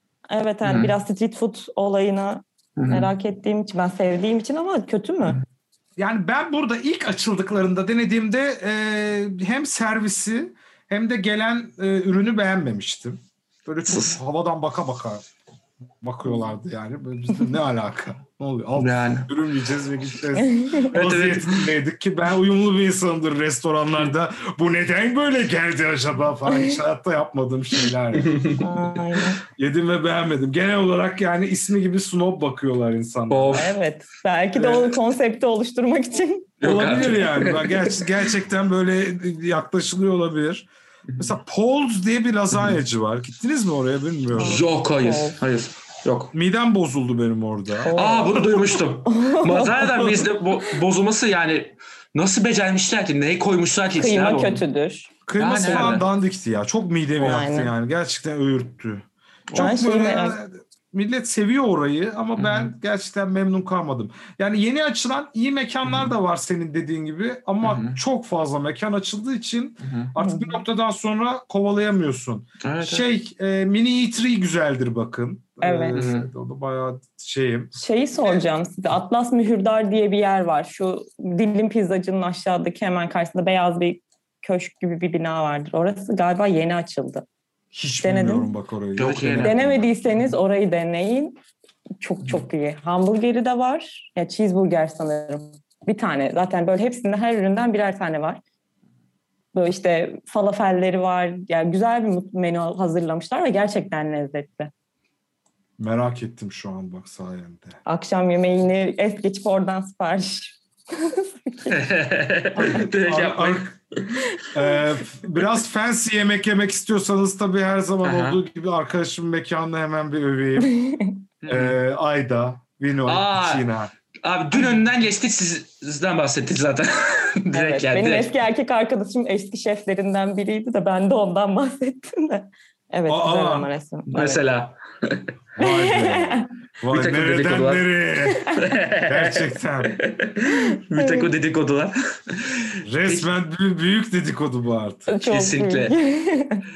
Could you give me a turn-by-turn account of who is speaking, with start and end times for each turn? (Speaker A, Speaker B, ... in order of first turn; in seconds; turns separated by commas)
Speaker A: 0.3-5.4, Speaker B: 0.6-0.9, Speaker B: 2.8-3.1, Speaker C: 6.0-15.2, Speaker B: 13.9-14.2, Speaker C: 16.0-28.6, Speaker B: 18.8-19.3, Speaker A: 20.4-20.9, Speaker B: 20.9-21.7, Speaker A: 26.5-26.8, Speaker B: 28.1-28.6, Speaker A: 28.6-29.4, Speaker C: 29.4-33.7, Speaker B: 33.3-33.8, Speaker A: 33.5-36.5, Speaker B: 34.5-35.0, Speaker B: 36.6-38.1, Speaker C: 36.6-40.7, Speaker C: 41.2-44.6, Speaker B: 44.4-46.3, Speaker A: 44.4-45.4, Speaker C: 46.3-47.9, Speaker A: 47.8-50.3, Speaker B: 47.9-54.6, Speaker A: 54.0-55.1, Speaker C: 55.3-77.8, Speaker B: 55.4-56.1, Speaker A: 55.6-56.0, Speaker A: 57.2-57.7, Speaker A: 59.5-60.4, Speaker B: 62.4-62.7, Speaker B: 65.8-66.1, Speaker B: 67.6-68.0, Speaker B: 69.8-70.1, Speaker A: 70.2-70.6, Speaker B: 72.6-73.1, Speaker A: 75.6-76.0, Speaker B: 76.0-76.3, Speaker A: 77.8-87.2, Speaker C: 87.7-89.9, Speaker A: 88.0-88.5, Speaker B: 89.0-89.6, Speaker A: 89.4-91.4, Speaker A: 92.0-98.4, Speaker A: 99.5-104.7, Speaker C: 105.8-107.8, Speaker A: 107.9-111.7, Speaker B: 111.7-114.3, Speaker C: 112.5-113.8, Speaker C: 114.5-120.7, Speaker B: 118.0-118.4, Speaker A: 120.6-121.2, Speaker B: 121.4-121.8, Speaker C: 121.5-123.9, Speaker B: 123.1-123.7, Speaker B: 124.2-128.3, Speaker A: 127.5-134.4, Speaker C: 133.1-133.7, Speaker B: 134.1-135.3, Speaker C: 135.6-139.9, Speaker A: 135.6-136.5, Speaker B: 136.9-137.9, Speaker A: 138.3-138.6, Speaker B: 138.6-143.3, Speaker A: 140.5-141.3, Speaker C: 142.8-145.1, Speaker A: 145.1-146.7, Speaker B: 145.2-145.9